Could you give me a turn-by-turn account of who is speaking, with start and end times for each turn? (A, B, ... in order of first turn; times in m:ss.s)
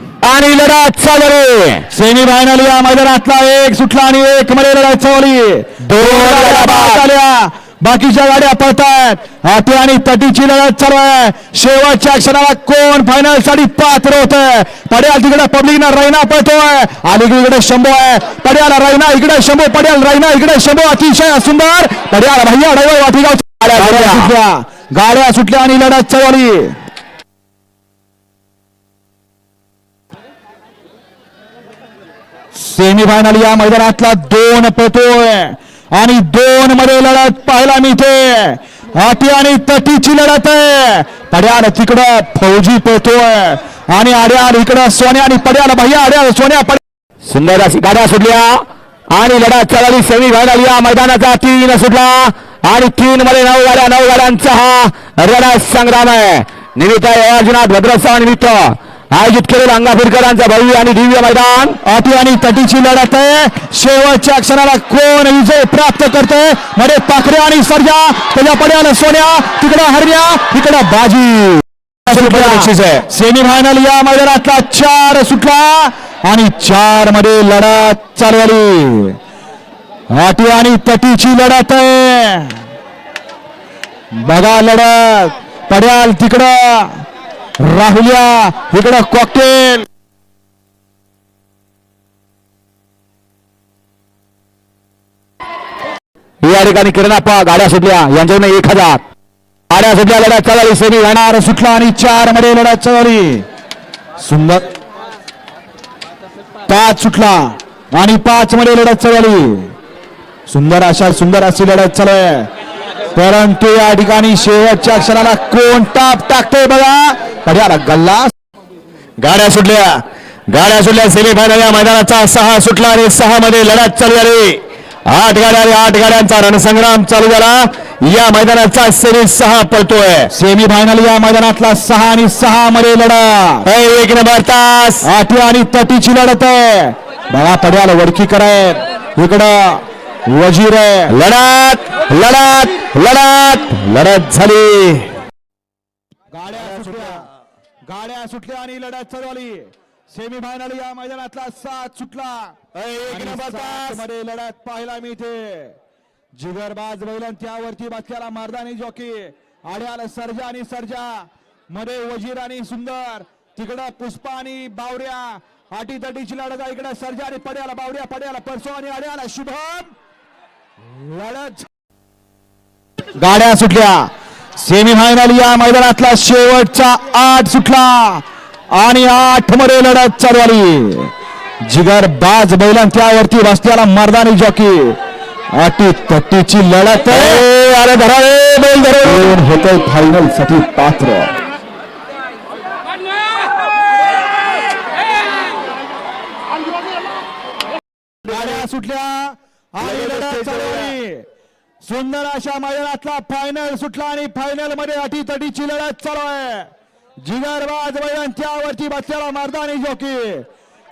0:00.2-0:01.8 A
0:01.9-0:26.8 B
0:05.8-0:07.0 A
0:23.6-0:24.3 A
0:32.6-0:46.8 B
0:47.3-1:01.8 A
1:01.8-1:19.2 B
1:12.1-1:13.0 A
1:20.1-1:22.6 B
1:24.2-1:27.0 B
1:27.6-1:29.9 B
1:36.4-1:39.0 A
1:39.7-1:41.2 A
1:41.1-1:43.4 B
1:44.2-1:44.7 B
1:46.7-1:49.7 B
1:50.5-1:52.5 B
1:53.2-1:58.3 B
1:59.2-2:10.3 A
2:10.3-2:13.7 B
2:13.6-2:15.1 A
2:15.0-2:21.1 B
2:21.1-2:25.1 A
2:26.3-2:27.3 B
2:26.6-2:27.2 A
2:27.9-2:32.5 B
2:32.8-2:34.0 A
2:33.1-2:35.8 B
2:36.4-2:49.9 B
2:50.9-2:51.7 B
2:53.2-2:54.1 B
2:54.6-2:58.2 B
2:58.8-3:01.1 B
3:01.7-3:05.0 B
3:05.6-3:07.5 B
3:07.1-3:09.4 A
3:09.0-3:11.3 B
3:18.3-3:18.6 A
3:18.3-3:21.2 B
3:19.8-3:20.9 A
3:21.8-3:26.7 B
3:27.2-3:30.5 B